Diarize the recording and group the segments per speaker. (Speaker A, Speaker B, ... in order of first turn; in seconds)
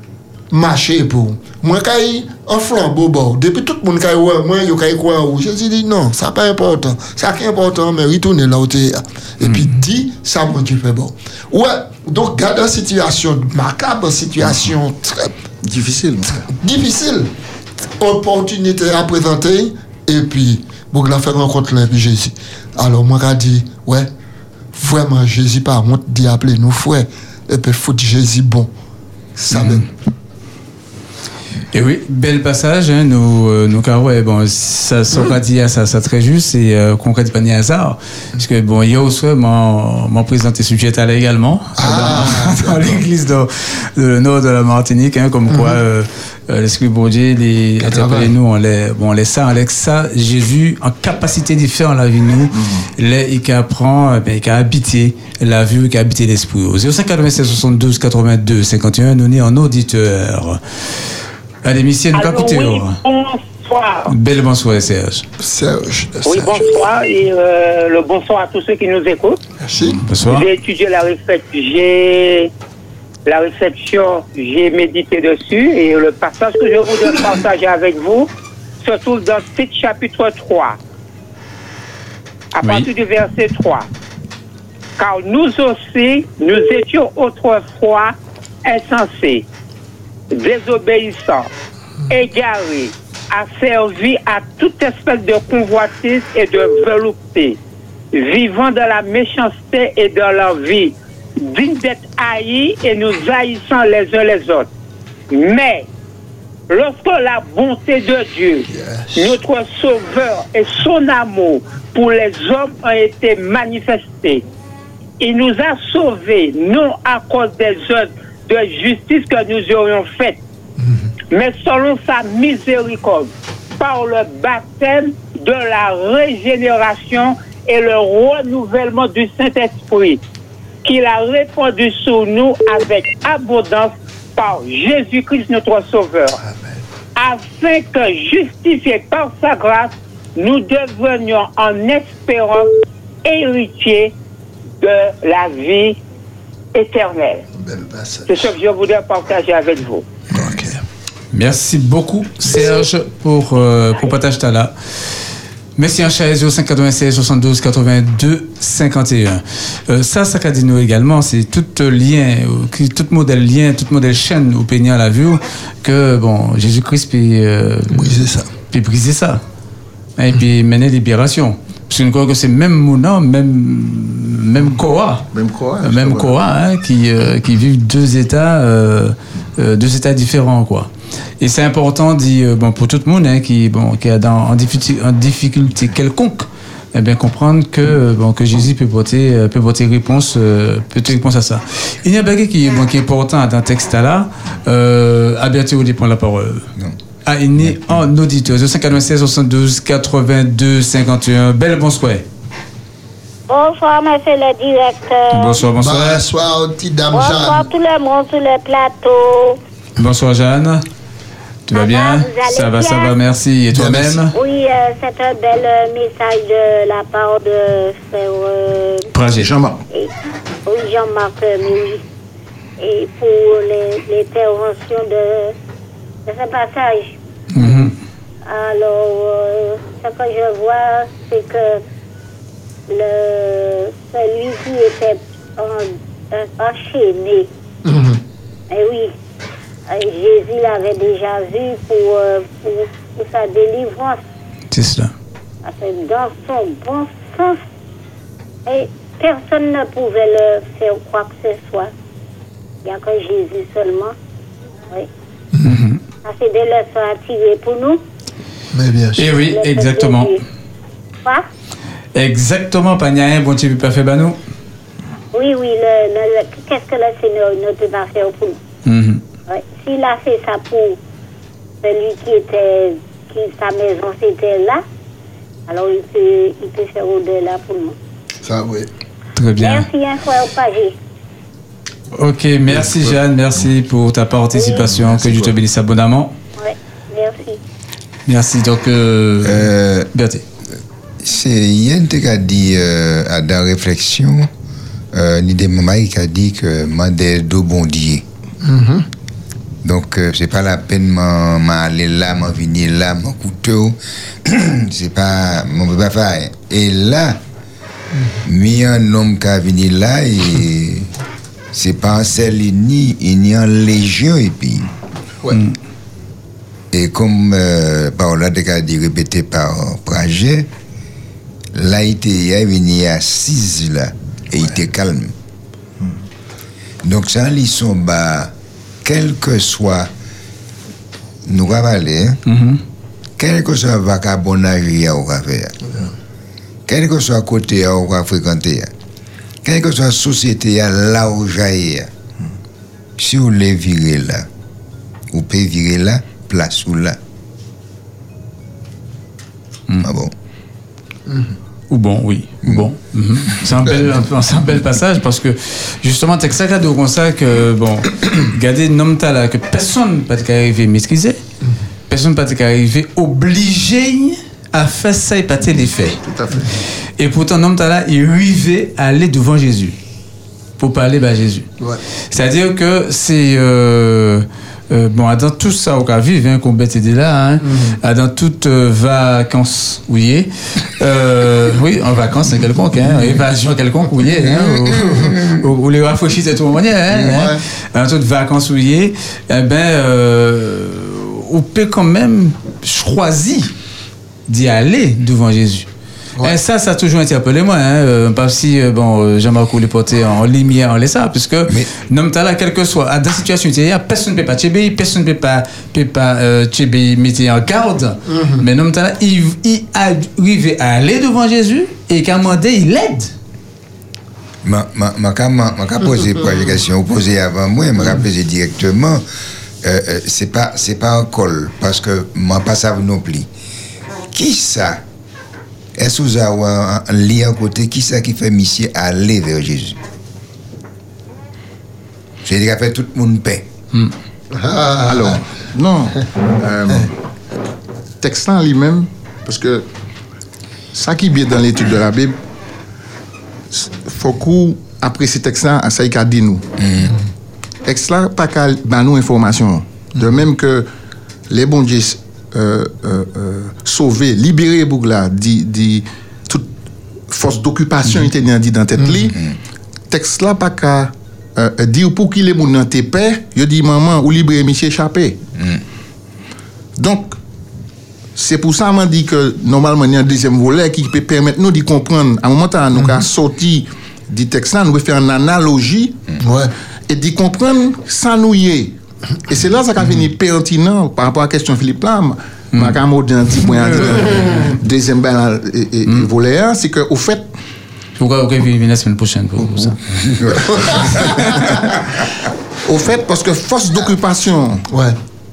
Speaker A: 0.5-15.3, 16.4-17.3, 18.0-24.1, 24.7-28.7, 29.4-29.9, 41.8-43.0, 45.5-45.8, 47.8-48.3, 65.4-66.7, 69.6-70.0, 108.7-109.4, 136.4-136.8, 147.6-148.5, 150.3-150.8, 167.9-168.5, 205.8-207.7, 213.7-214.2, 237.8-238.2, 255.5-255.9, 258.7-259.2, 278.4-278.9, 298.6-299.1, 351.3-351.6, 377.6-378.0, 387.1-387.6, 408.3-408.6, 434.5-435.4, 476.4-476.7, 490.8-491.7, 494.9-495.1
Speaker B: 9.4-9.7, 29.5-29.8, 31.7-61.1, 61.6-63.0, 64.1-65.2, 69.9-70.5, 82.6-82.9, 151.3-155.2, 155.8-168.2, 168.7-169.4, 170.2-175.3, 175.8-196.7, 197.2-202.2, 205.3-206.2, 210.0-210.8, 211.7-214.3, 219.1-219.5, 227.5-227.9, 244.7-245.1, 255.6-256.0, 259.2-260.4, 262.1-264.4, 268.8-269.2, 279.3-279.9, 282.1-286.3, 288.3-290.4, 315.5-315.7, 332.4-332.8, 351.9-361.4, 362.1-366.2, 367.2-369.9, 370.8-371.7, 372.3-393.7, 394.5-395.9, 396.4-413.3, 482.7-483.0, 483.9-484.4, 488.2-490.0
Speaker C: 15.6-16.4, 52.5-52.9, 175.3-176.3, 219.4-219.8, 366.2-366.7, 435.0-437.1, 438.2-439.9, 440.9-442.4, 443.7-446.7, 447.8-450.9, 451.5-456.7, 457.3-459.4, 460.1-465.4, 467.0-467.4, 468.4-476.2, 477.1-487.5, 492.8-494.8
Speaker D: 62.1-64.1, 66.2-69.4, 70.3-72.5, 73.2-78.3, 78.8-80.8, 82.5-83.9, 85.0-89.5, 90.3-91.5, 92.1-97.6, 98.1-104.7, 105.3-105.9, 106.7-114.4, 115.2-120.4, 121.3-130.2, 130.8-136.4, 137.2-142.7, 143.2-144.1, 144.8-146.0, 146.7-147.4, 148.2-150.0
Speaker E: 203.5-205.6, 207.1-209.6, 211.7-213.2, 214.3-219.1, 220.7-222.0, 222.8-225.5, 226.2-227.2, 228.4-231.8, 232.9-237.5, 238.7-239.1, 239.9-244.2, 245.6-247.6, 248.7-251.9, 252.8-254.1, 256.2-258.0, 259.4-260.4, 265.3-268.6, 269.5-271.0, 271.8-274.8, 275.7-277.9, 279.6-280.9, 284.5-284.9, 286.6-287.6
Speaker F: 289.4-290.1, 291.2-294.5, 295.1-298.2, 299.8-307.4, 308.4-311.1, 311.7-314.9, 316.9-320.7, 321.7-325.3, 327.0-328.5, 329.0-330.1, 331.4-332.4, 333.4-335.8, 336.9-338.9, 339.6-342.1, 343.2-344.5, 345.3-347.2, 350.0-350.3, 353.5-353.9, 414.6-419.2, 419.8-423.5, 424.3-425.0, 426.0-430.0, 432.4-433.6, 446.8-447.1, 465.6-465.8, 490.3-491.1